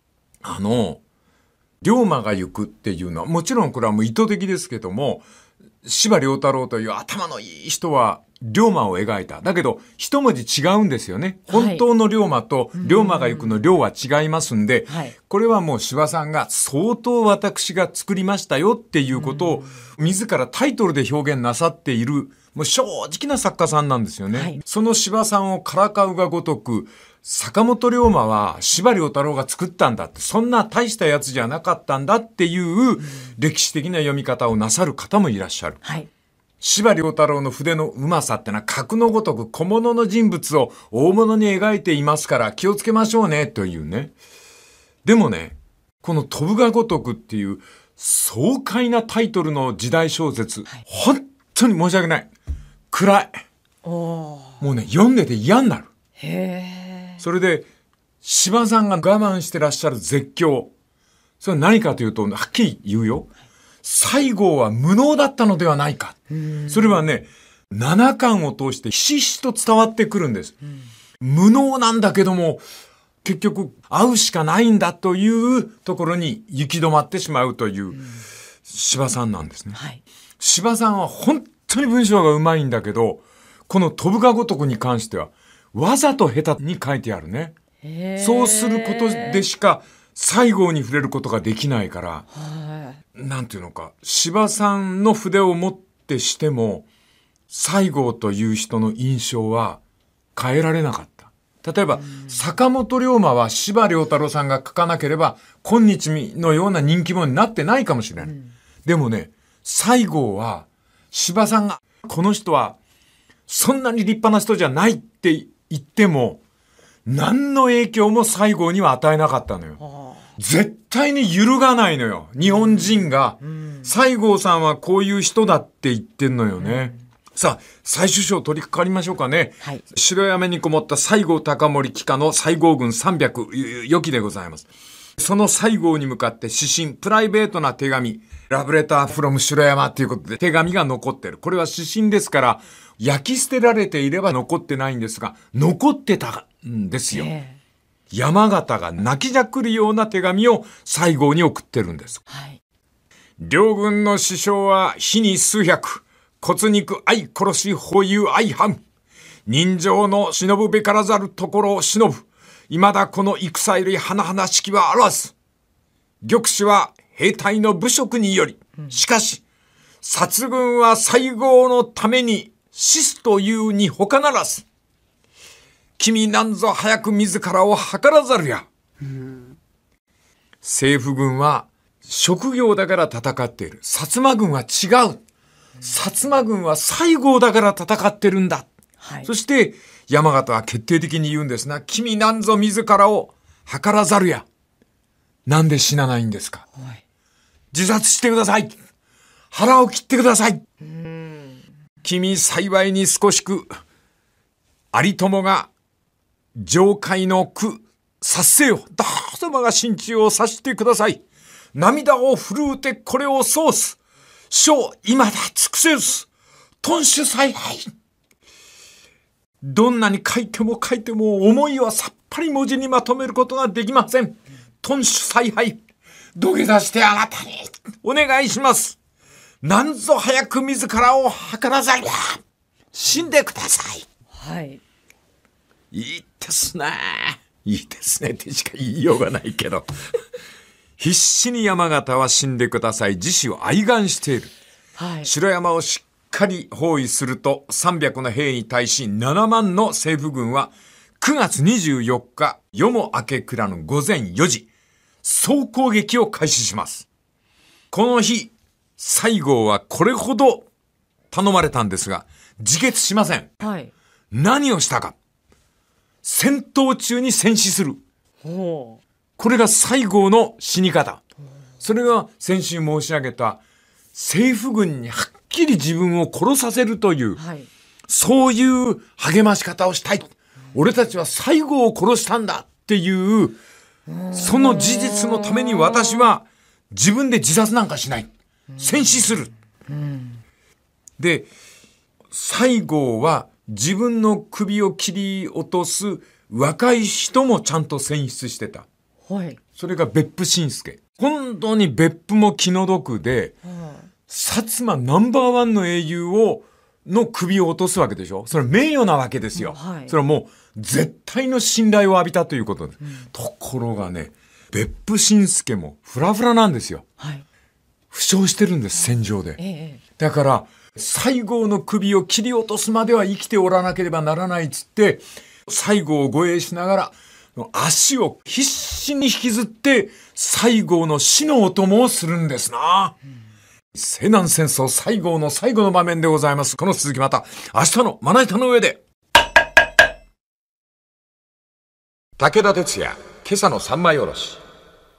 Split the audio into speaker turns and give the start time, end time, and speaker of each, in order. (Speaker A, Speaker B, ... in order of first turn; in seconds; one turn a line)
Speaker A: 0.4-1.0
Speaker A: 1.8-5.2
Speaker A: 5.8-35.8
Speaker B: 11.5-11.8
Speaker B: 12.8-13.6
Speaker B: 14.9-15.1
Speaker B: 19.2-19.7
Speaker B: 24.3-24.6
Speaker B: 35.8-36.1
Speaker A: 36.6-44.1
Speaker A: 45.0-52.3
Speaker A: 52.9-53.4
Speaker B: 53.8-54.6
Speaker A: 54.6-55.9
Speaker B: 56.2-57.2
Speaker A: 57.2-57.7
Speaker A: 58.2-60.7
Speaker A: 61.4-63.3
Speaker A: 63.8-70.6
Speaker B: 66.3-67.0
Speaker A: 71.2-72.6
Speaker A: 73.2-78.0
Speaker A: 78.7-79.8
Speaker B: 79.8-80.0
Speaker A: 80.4-87.5
Speaker B: 87.8-89.4
Speaker A: 88.2-92.3
Speaker B: 92.3-93.0
Speaker A: 93.2-96.9
Speaker A: 97.5-99.8
Speaker A: 100.4-108.3
Speaker B: 102.1-102.4
Speaker A: 108.8-112.8
Speaker A: 113.5-116.4
Speaker A: 117.1-119.8
Speaker B: 119.8-120.2
Speaker A: 120.4-147.3
Speaker B: 123.6-123.9
Speaker B: 126.6-126.9
Speaker B: 147.1-147.6
Speaker A: 148.1-152.2
Speaker B: 152.3-152.6
Speaker A: 153.4-158.8
Speaker A: 159.5-165.3
Speaker A: 166.2-169.4
Speaker A: 170.0-174.6
Speaker A: 176.0-178.7
Speaker A: 180.6-185.2
Speaker A: 185.8-188.7
Speaker B: 189.0-189.3
Speaker A: 189.2-194.5
Speaker A: 195.5-196.7
Speaker B: 196.8-197.0
Speaker A: 197.7-198.8
Speaker A: 199.5-200.6
Speaker B: 200.8-201.6
Speaker A: 202.0-203.8
Speaker A: 204.9-205.7
Speaker A: 206.6-211.2
Speaker A: 211.7-214.0
Speaker A: 214.5-216.3
Speaker A: 216.8-217.9
Speaker A: 219.6-225.8
Speaker A: 226.4-229.0
Speaker A: 229.6-232.4
Speaker A: 232.9-234.1
Speaker B: 234.3-234.8
Speaker A: 235.9-239.9
Speaker A: 241.0-244.5
Speaker B: 245.0-245.3
Speaker A: 245.2-254.7
Speaker A: 255.2-257.1
Speaker A: 257.9-260.7
Speaker A: 261.3-263.5
Speaker B: 263.6-263.9
Speaker A: 264.3-265.2
Speaker A: 266.2-268.0
Speaker B: 268.4-269.0
Speaker A: 269.4-271.2
Speaker A: 271.8-273.6
Speaker A: 274.1-277.4
Speaker B: 277.4-277.7
Speaker A: 278.1-283.6
Speaker B: 284.1-286.2
Speaker A: 284.3-289.5
Speaker B: 289.9-290.4
Speaker A: 291.2-291.5
Speaker A: 292.3-298.9
Speaker B: 299.3-299.6
Speaker A: 299.8-303.5
Speaker B: 303.6-304.1
Speaker A: 304.3-317.1
Speaker B: 309.6-310.1
Speaker B: 317.2-317.4
Speaker A: 318.1-319.6
Speaker B: 319.6-320.0
Speaker A: 320.2-333.2
Speaker A: 333.9-339.0
Speaker A: 342.4-344.6